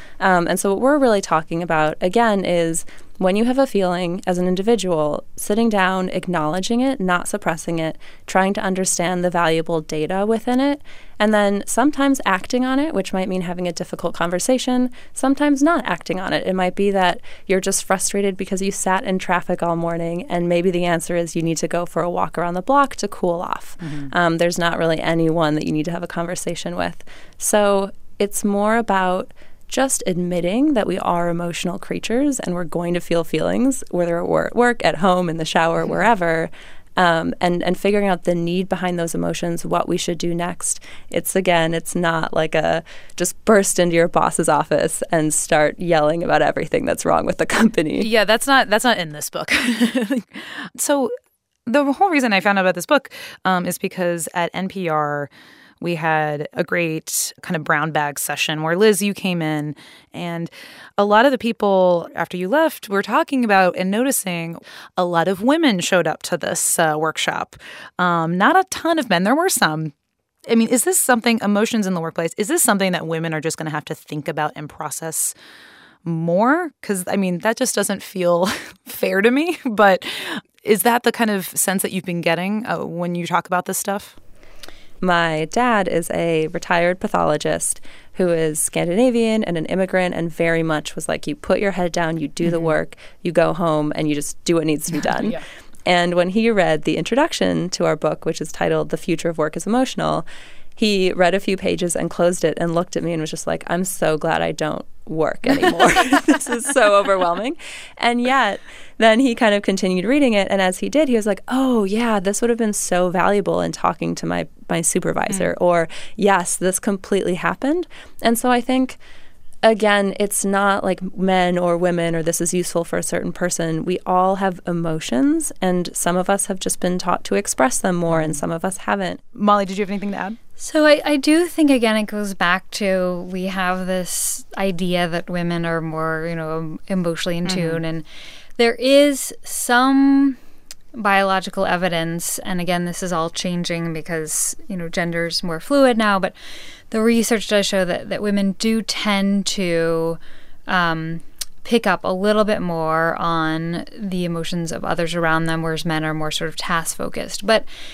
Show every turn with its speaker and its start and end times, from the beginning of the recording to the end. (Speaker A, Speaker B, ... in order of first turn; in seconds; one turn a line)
Speaker A: 0.2-48.1
Speaker B: 23.8-24.1
Speaker B: 48.0-51.1
Speaker B: 51.6-55.3
Speaker B: 55.8-69.9
Speaker B: 70.5-75.3
Speaker B: 76.0-84.2
Speaker A: 85.0-100.2
Speaker B: 92.4-92.7
Speaker A: 100.8-119.0
Speaker A: 119.6-129.2
Speaker B: 128.1-128.4
Speaker B: 129.3-130.4
Speaker C: 130.6-138.1
Speaker B: 137.4-137.8
Speaker C: 138.6-140.4
Speaker C: 140.9-146.3
Speaker C: 146.9-157.7